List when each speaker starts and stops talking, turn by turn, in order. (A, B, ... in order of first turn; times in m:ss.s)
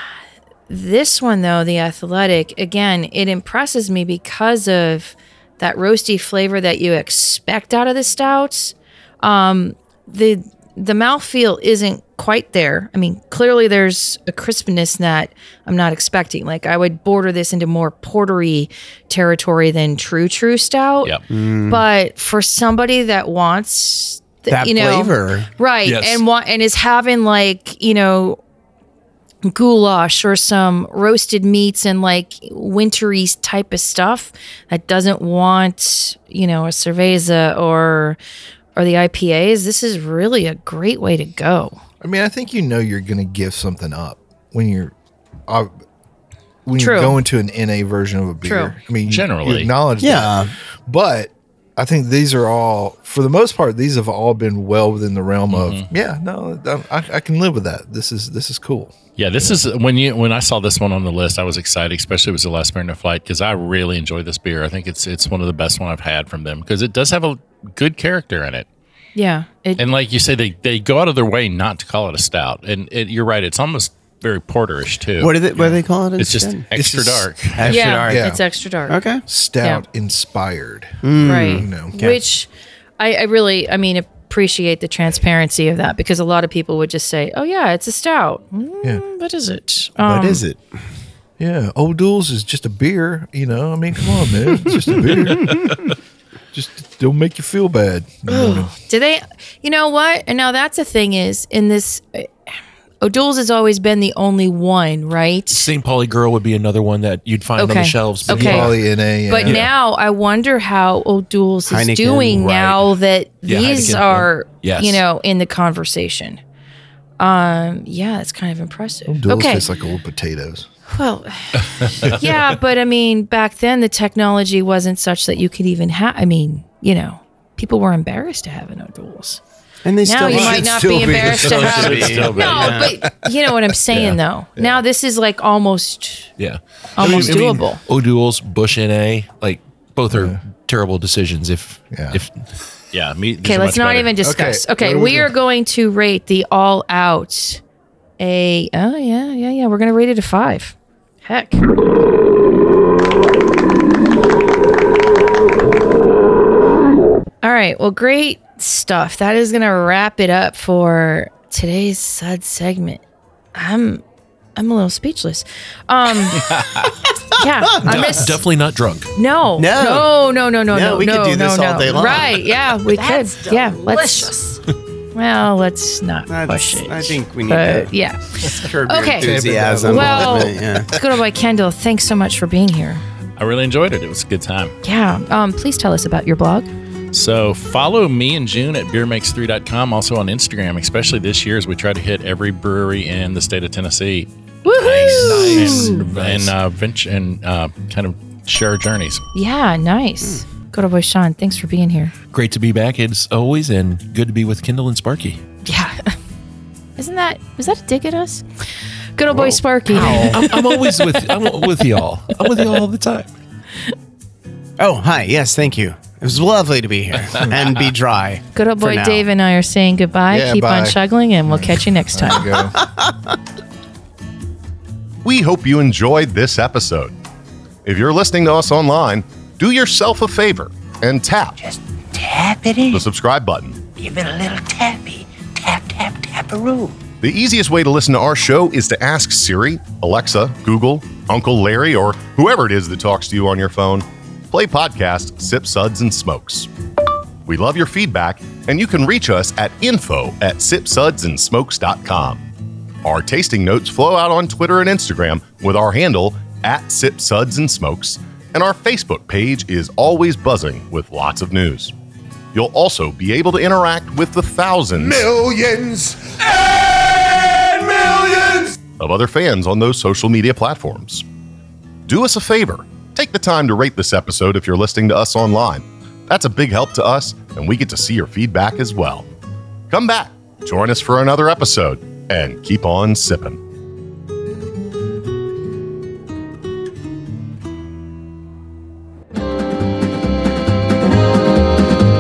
0:00.7-0:21.2 A
0:21.3-0:21.8 B
0:21.7-0:28.4 A
0:24.5-0:25.5 B
0:25.8-0:26.2 C
0:29.4-0:38.2 A
0:38.8-0:41.8 A
0:42.0-0:44.9 D
0:45.5-0:45.7 D
0:46.6-0:59.6 D
0:46.8-0:47.2 A
0:48.4-0:48.8 A
0:49.0-0:49.7 E
0:50.0-0:50.5 B
0:55.5-0:55.9 E
0:59.2-1:08.7 E
1:09.1-1:09.8 A
1:09.8-1:17.6 E
1:15.2-1:16.6 B
1:16.8-1:18.4 D
1:17.6-1:18.3 B
1:17.7-1:19.0 A
1:18.9-1:19.2 B
1:19.2-1:22.0 D
1:21.0-1:22.2 B
1:21.2-1:22.5 A
1:23.0-1:30.4 A
1:30.0-1:30.6 B
1:31.4-1:35.7 D
1:34.6-1:35.9 B
1:35.3-1:35.8 C
1:36.5-1:38.7 D
1:38.3-1:45.7 A
1:45.5-1:48.8 C
1:47.6-1:48.7 A
1:48.2-1:49.7 D
1:49.3-1:56.4 A
1:49.4-1:49.7 C
1:51.6-1:52.9 B
1:53.4-1:55.0 C
1:57.2-1:59.7 A
1:59.1-2:00.7 D
2:00.9-2:09.4 A
2:09.8-2:13.0 B
2:10.0-2:16.3 A
2:10.2-2:11.7 D
2:11.4-2:12.9 E
2:16.4-2:22.4 C
2:17.0-2:17.8 A
2:20.1-2:20.4 D
2:21.9-2:22.2 D
2:22.9-2:24.1 E
2:23.4-2:27.6 A
2:24.2-2:25.3 D
2:28.2-2:31.6 A
2:37.4-2:43.0 A
2:43.5-2:44.0 A
2:44.6-2:46.6 A
2:46.4-2:46.9 E
2:47.4-2:48.4 A
2:47.8-2:49.1 C
2:49.1-2:54.3 A
2:49.6-2:50.1 B
2:50.7-2:52.5 B
2:52.9-2:54.6 F
2:55.1-3:03.0 A
2:56.3-2:57.9 B
2:58.4-3:00.9 B
2:58.4-3:01.1 D
3:03.4-3:04.7 E
3:04.8-3:06.7 A
3:07.1-3:19.2 E
3:14.6-3:16.1 A
3:15.0-3:16.5 C
3:19.3-3:22.1 A
3:22.3-3:25.4 C
3:25.6-3:26.1 A
3:27.0-3:28.4 A
3:29.2-3:31.7 A
3:29.9-3:33.3 C
3:34.8-3:39.2 B
3:38.5-3:42.6 A
3:40.3-3:42.8 D
3:45.2-3:47.2 G
3:47.8-3:51.6 G
3:51.6-3:53.0 F
3:52.9-3:53.8 G
3:53.9-3:57.0 F
3:57.2-4:06.7 G
4:07.4-4:12.4 G
4:13.0-4:21.9 G
4:22.5-4:25.5 G
4:29.0-4:31.2 G
4:32.0-4:39.3 G
4:39.9-4:43.6 G